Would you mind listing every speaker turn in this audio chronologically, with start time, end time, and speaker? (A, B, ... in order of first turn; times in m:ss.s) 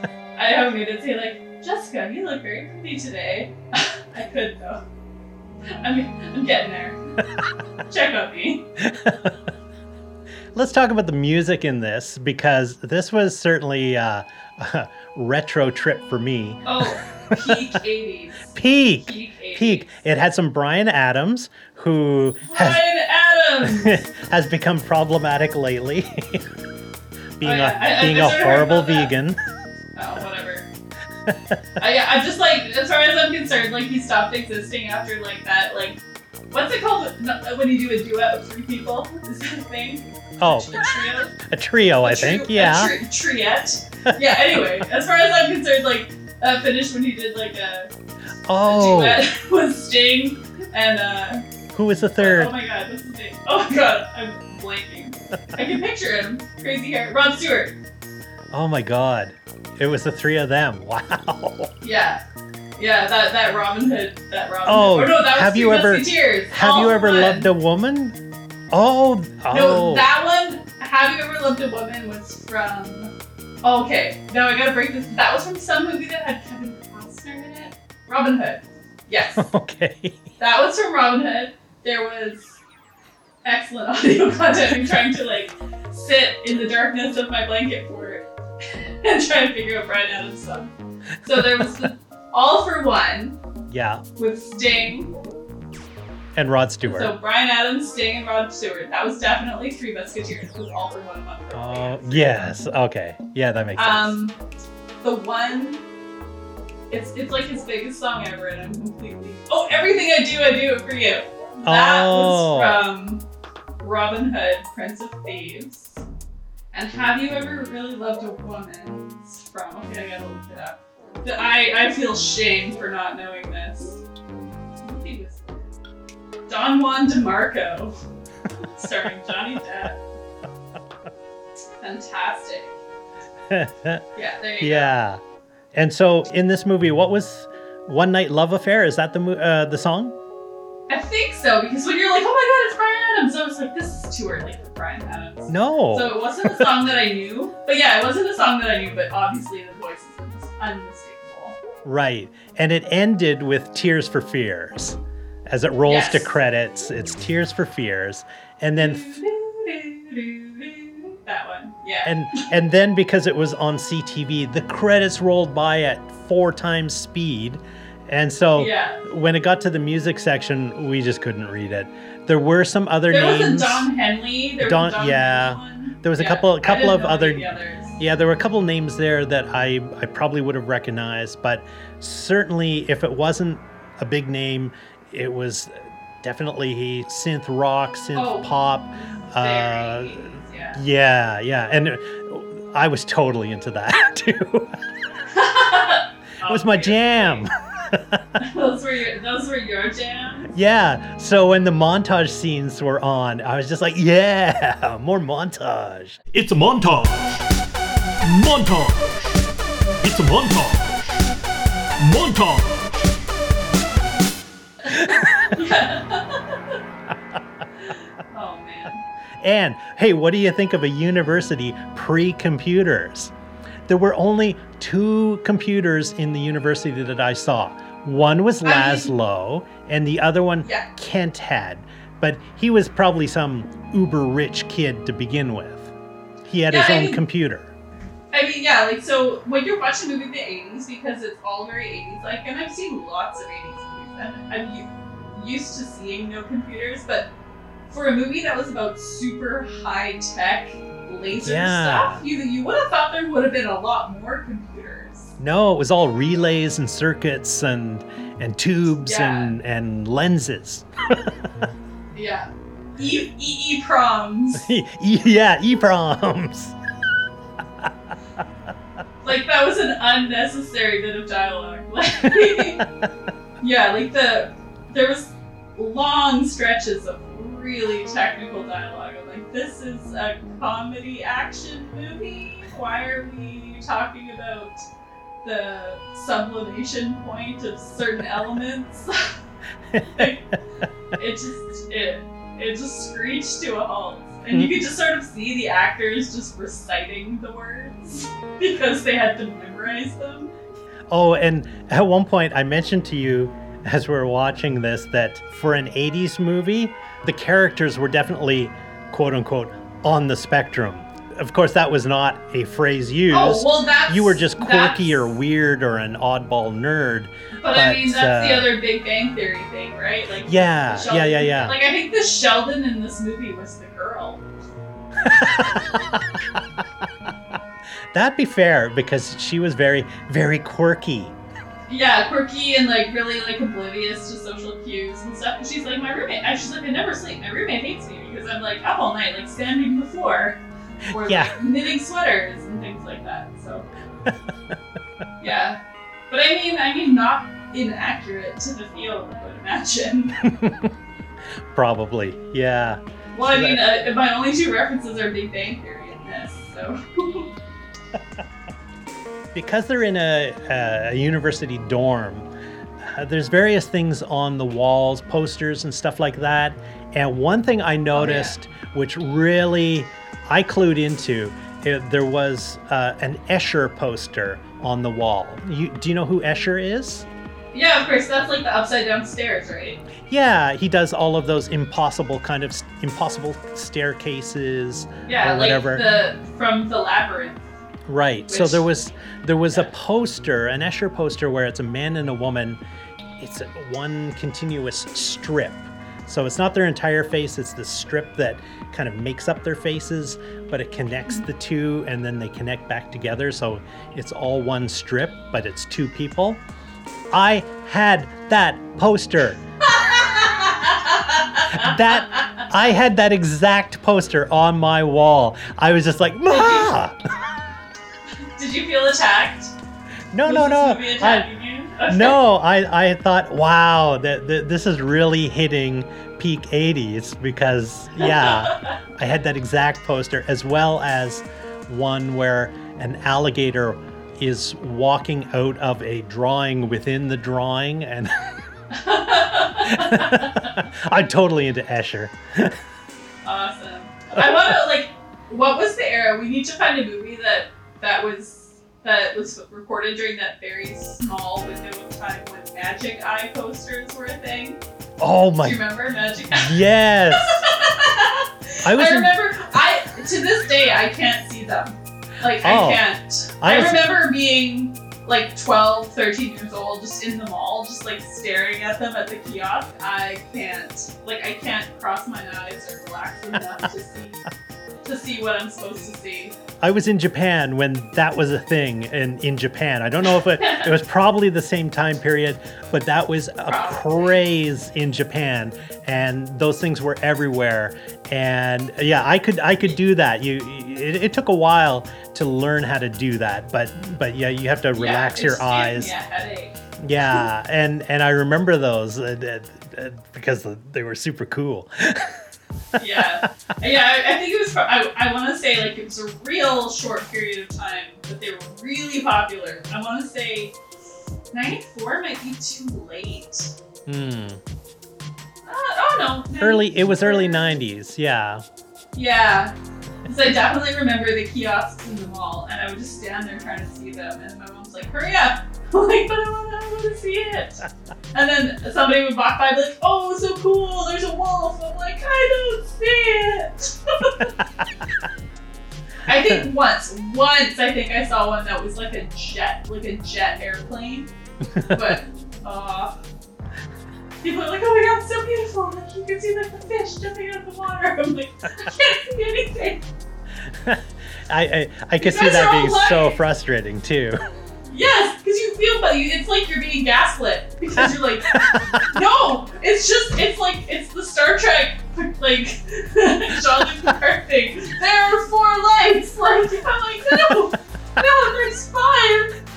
0:00.4-0:04.8 A
0:05.8-0:07.0 A
0:07.9-0:08.7 A
0:08.8-0:09.4 B
0:10.5-0:17.6 B
0:16.7-0:18.5 A
0:18.5-0:22.8 B
0:19.1-0:19.9 A
0:22.5-0:24.0 A
0:23.6-0:26.5 B
0:27.4-0:29.4 B
0:27.4-0:29.1 A
0:30.0-0:30.7 A
0:31.2-0:31.6 B
0:31.8-0:36.0 A
0:36.5-0:41.3 A
0:40.4-0:43.0 B
0:42.0-0:47.9 A
0:44.1-0:44.6 B
0:48.5-0:49.2 B
0:48.6-0:51.4 A
0:51.7-0:52.5 B
0:52.2-0:57.8 A
0:58.5-1:01.7 B
1:01.8-1:02.2 A
1:02.8-1:07.5 A
1:04.7-1:08.2 B
1:08.7-1:10.1 B
1:09.5-1:13.1 A
1:13.6-1:19.4 A
1:19.4-1:20.3 B
1:20.4-1:22.6 A
1:23.4-1:28.2 A
1:29.0-1:33.4 A
1:31.3-1:31.7 B
1:33.7-1:34.0 B
1:34.2-1:35.1 A
1:36.4-1:37.1 B
1:36.8-1:42.5 A
1:41.5-1:44.2 B
1:43.8-1:44.4 A
1:45.0-1:45.8 A
1:46.9-1:53.2 A
1:51.6-1:52.8 B
1:53.8-1:56.0 A
1:56.7-2:04.0 A
2:04.8-2:05.6 A
2:06.5-2:07.9 A
2:08.6-2:10.0 A
2:11.8-2:12.8 A
2:13.5-2:14.0 B
2:14.2-2:14.9 A
2:14.6-2:15.2 B
2:15.7-2:20.2 B
2:20.9-2:31.6 A
2:25.5-2:26.7 B
2:31.8-2:39.2 B
2:35.9-2:36.3 A
2:38.8-2:42.5 A
2:42.0-2:53.9 B
2:48.6-2:49.0 A
2:53.1-2:58.0 A
2:54.6-3:14.8 B
3:08.2-3:10.8 A
3:15.3-3:17.5 A
3:16.4-3:18.4 B
3:18.4-3:20.5 A
3:20.5-3:26.2 B
3:26.3-3:27.5 C
3:28.2-3:29.4 C
3:30.0-3:31.2 C
3:32.0-3:33.1 C
3:34.8-3:36.8 A
3:34.9-3:35.6 B
3:37.9-3:39.0 A
3:39.4-3:43.3 B
3:43.9-3:55.9 B
3:48.6-3:49.1 A
3:50.6-3:50.9 A
3:56.4-3:57.7 B
3:56.7-3:57.2 A
3:58.3-4:07.3 A
4:07.9-4:15.3 A
4:11.4-4:12.2 B
4:15.4-4:21.5 B
4:19.1-4:19.5 A
4:22.1-4:24.7 A
4:24.6-4:26.8 B
4:29.2-4:32.8 A
4:33.6-4:44.8 A
4:45.4-4:49.3 A
4:49.9-4:50.6 B
4:50.2-4:50.4 A
4:51.1-5:00.5 A
4:54.5-4:54.8 B
5:01.1-5:18.7 B
5:13.3-5:15.3 A
5:17.6-5:24.4 A
5:20.4-5:21.8 B
5:25.2-5:26.4 B
5:28.1-5:31.4 B
5:31.9-5:43.9 A
5:41.2-5:41.6 B
5:45.4-5:50.4 A
5:50.4-5:50.9 B
5:51.7-5:53.8 B
5:53.3-5:57.5 A
5:59.5-6:02.5 B
6:03.0-6:17.3 B
6:08.1-6:08.5 A
6:17.7-6:20.0 A
6:20.3-6:26.1 B
6:25.3-6:27.7 A
6:28.1-6:32.8 B
6:28.5-6:28.8 A
6:33.4-6:46.6 B
6:47.3-6:49.6 B
6:49.8-6:52.6 A
6:51.7-6:57.2 B
6:56.5-6:56.9 A
6:58.6-6:59.7 A
7:00.3-7:01.5 B
7:00.4-7:02.4 A
7:02.1-7:18.5 B
7:08.2-7:09.0 A
7:18.9-7:20.5 A
7:19.9-7:22.8 B
7:23.4-7:34.8 A
7:35.2-7:35.8 B
7:35.6-7:36.8 A
7:36.5-7:37.6 B
7:37.3-7:54.4 A
7:38.8-7:39.4 B
7:42.6-7:43.1 B
7:43.6-7:44.2 B
7:55.0-7:56.6 A
7:56.8-8:16.1 B
8:00.6-8:00.9 A
8:03.6-8:04.4 A
8:15.0-8:16.7 A
8:17.0-8:22.4 B
8:23.0-8:23.5 B
8:23.0-8:30.8 A
8:31.5-8:33.7 A
8:34.1-8:34.6 B
8:35.6-8:37.6 A
8:36.5-8:38.6 B
8:39.2-8:39.8 A
8:40.3-8:54.5 A
8:56.2-9:01.3 A
9:01.7-9:02.1 B
9:01.9-9:03.2 A
9:04.4-9:10.0 A
9:10.7-9:14.4 B
9:12.2-9:13.4 A
9:14.9-9:29.6 A
9:18.5-9:19.1 B